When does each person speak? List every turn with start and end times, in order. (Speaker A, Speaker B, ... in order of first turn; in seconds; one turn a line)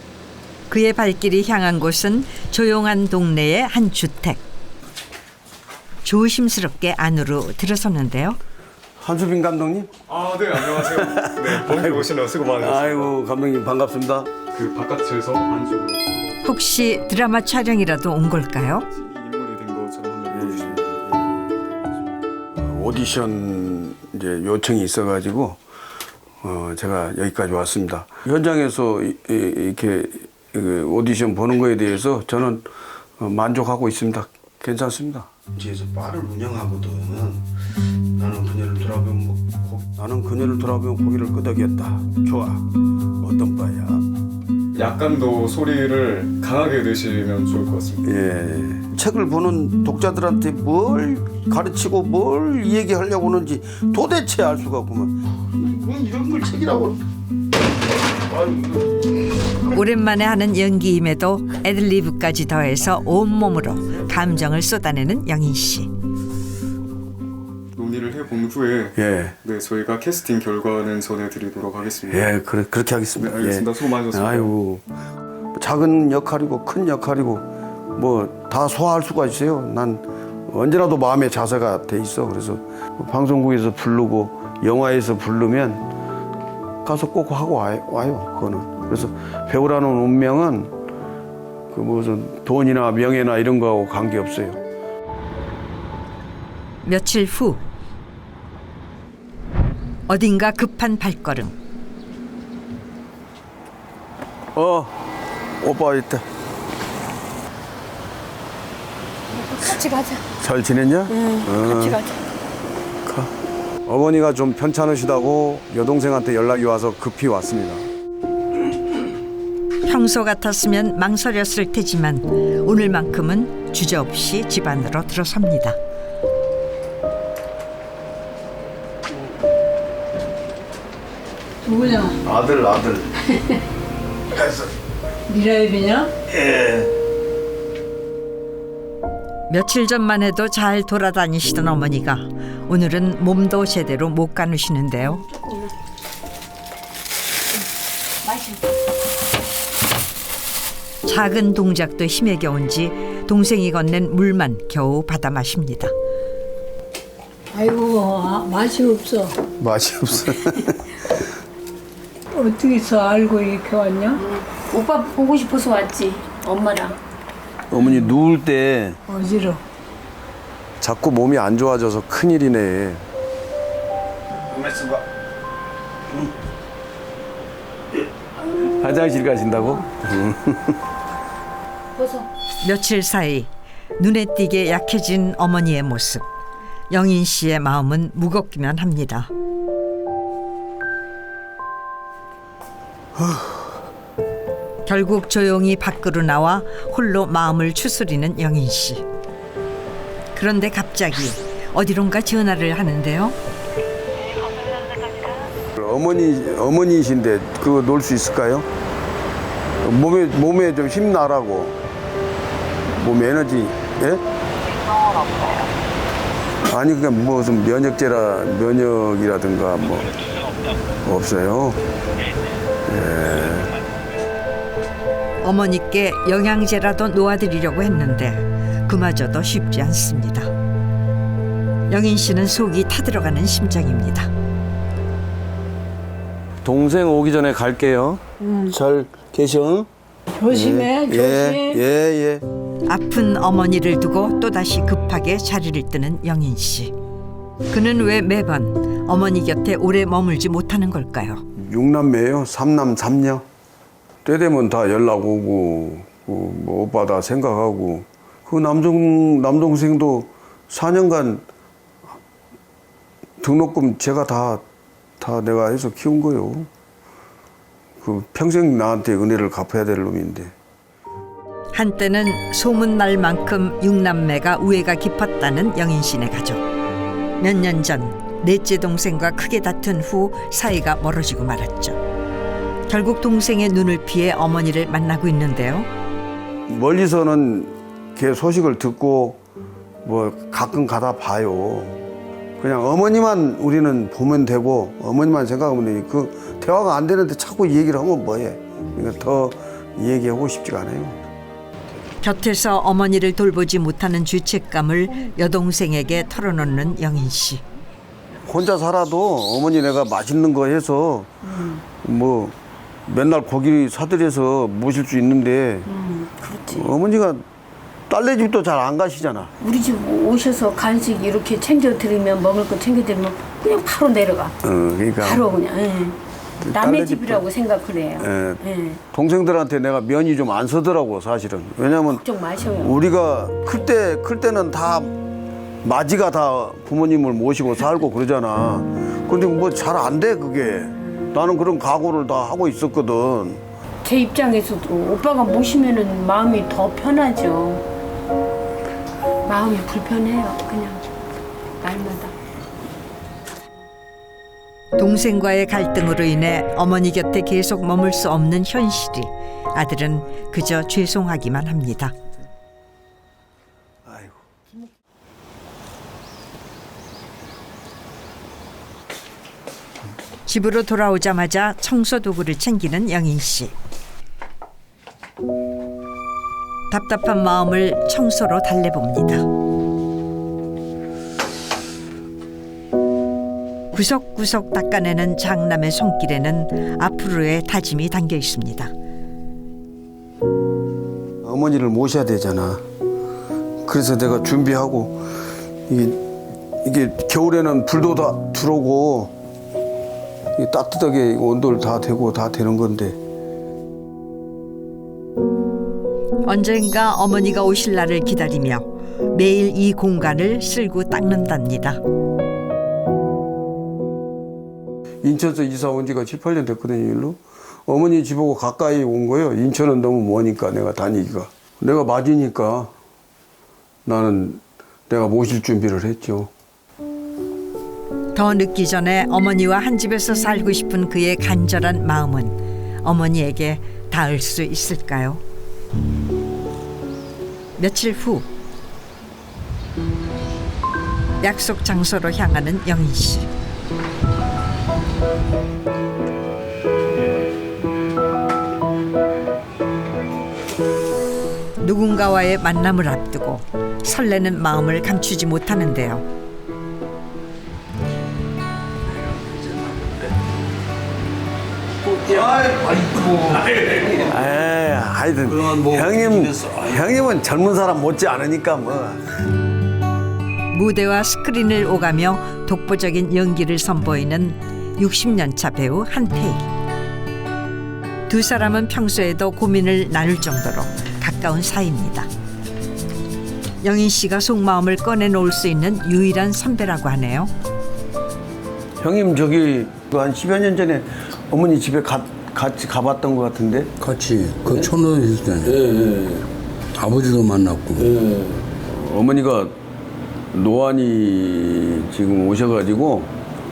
Speaker A: 0.7-4.4
Speaker A: 6.0-8.4
Speaker B: 9.0-9.9
Speaker C: 10.1-13.1
Speaker B: 10.5-14.3
Speaker C: 14.5-16.5
Speaker A: 16.4-18.9
Speaker C: 18.9-22.1
Speaker B: 20.4-20.8
Speaker B: 22.5-25.6
Speaker B: 26.4-37.5
Speaker B: 38.1-42.7
Speaker B: 43.2-44.0
Speaker C: 44.7-48.1
Speaker B: 48.0-57.0
Speaker B: 58.3-59.0
Speaker A: 59.7-65.9
Speaker C: 67.7-72.3
Speaker B: 69.0-69.3
Speaker B: 72.1-74.8
Speaker C: 73.2-74.5
Speaker B: 75.5-85.8
Speaker B: 86.8-90.7
Speaker B: 91.7-94.6
Speaker A: 96.8-97.6
Speaker A: 100.1-101.5
Speaker B: 104.5-105.0
Speaker B: 105.6-106.2
Speaker D: 109.3-110.2
Speaker B: 110.4-112.0
Speaker D: 111.1-112.2
Speaker B: 113.0-113.3
Speaker B: 113.8-117.9
Speaker A: 119.8-125.8
Speaker E: 131.6-132.2
Speaker B: 132.2-133.1
Speaker B: 134.3-134.7
Speaker E: 135.3-136.1
Speaker B: 136.3-136.9
Speaker A: 139.5-145.2
Speaker D: 145.1-145.7
Speaker D: 148.2-148.6
Speaker A: 151.1-155.9
Speaker E: 157.5-159.3
Speaker B: 159.6-160.9
Speaker E: 162.3-164.2
Speaker D: 164.2-167.0
Speaker B: 167.7-169.0
Speaker E: 169.1-169.6
Speaker B: 170.8-173.1
Speaker B: 174.5-175.0
Speaker B: 178.6-180.8
Speaker E: 181.9-182.3
Speaker A: 182.6-186.2
Speaker A: 186.9-189.3
Speaker B: 193.2-193.6
Speaker A: 194.8-199.0
Speaker A: 200.3-203.4
Speaker B: 205.8-208.7
Speaker B: 209.8-211.8
Speaker B: 212.9-214.2
Speaker B: 216.6-220.2
Speaker B: 221.0-221.8
Speaker B: 222.8-223.7
Speaker A: 225.4-230.5
Speaker A: 231.9-234.3
Speaker B: 236.6-239.9
Speaker E: 238.4-238.7
Speaker E: 240.4-241.8
Speaker B: 240.5-242.4
Speaker A: 242.9-246.9
Speaker A: 247.7-251.4
Speaker B: 251.6-253.4
Speaker B: 254.2-261.4
Speaker B: 263.4-264.6
Speaker B: 265.2-266.7
Speaker B: 268.0-270.5
Speaker A: 271.7-276.6
Speaker A: 277.4-282.0
Speaker A: 282.9-285.9
Speaker B: 286.7-289.4
Speaker B: 290.0-292.0
Speaker B: 292.6-301.2
Speaker A: 302.2-307.6
Speaker B: 308.4-311.3
Speaker D: 311.4-311.8
Speaker B: 312.0-312.5
Speaker B: 313.1-315.9
Speaker D: 315.9-316.9
Speaker B: 316.6-317.4
Speaker B: 318.1-319.5
Speaker D: 319.6-324.5
Speaker B: 324.6-325.4
Speaker D: 325.2-326.2
Speaker B: 326.6-327.4
Speaker D: 326.7-329.0
Speaker B: 328.2-328.6
Speaker B: 329.1-332.2
Speaker D: 332.1-332.9
Speaker B: 332.8-335.1
Speaker B: 335.8-343.6
Speaker D: 344.0-347.8
Speaker D: 349.4-351.0
Speaker D: 351.8-352.3
Speaker A: 355.0-362.1
Speaker B: 364.0-364.4
Speaker A: 370.5-373.7
Speaker A: 376.9-379.4
Speaker A: 383.9-388.9
Speaker B: 391.4-392.8
Speaker B: 393.8-395.2
Speaker B: 395.9-396.2
Speaker B: 396.8-399.3
Speaker B: 400.6-403.2
Speaker A: 406.4-412.0
Speaker B: 415.2-422.9
Speaker B: 424.0-426.5
Speaker A: 428.3-435.4
Speaker A: 437.8-438.5
Speaker A: 441.4-443.5
Speaker A: 451.8-456.2
Speaker B: 462.2-469.2
Speaker F: 465.7-466.2
Speaker A: 470.7-476.6
Speaker A: 478.3-482.3
Speaker A: 483.8-487.5
Speaker B: 489.0-493.9
Speaker F: 494.0-496.4
Speaker F: 496.9-498.3
Speaker B: 498.8-499.8
Speaker B: 500.5-503.3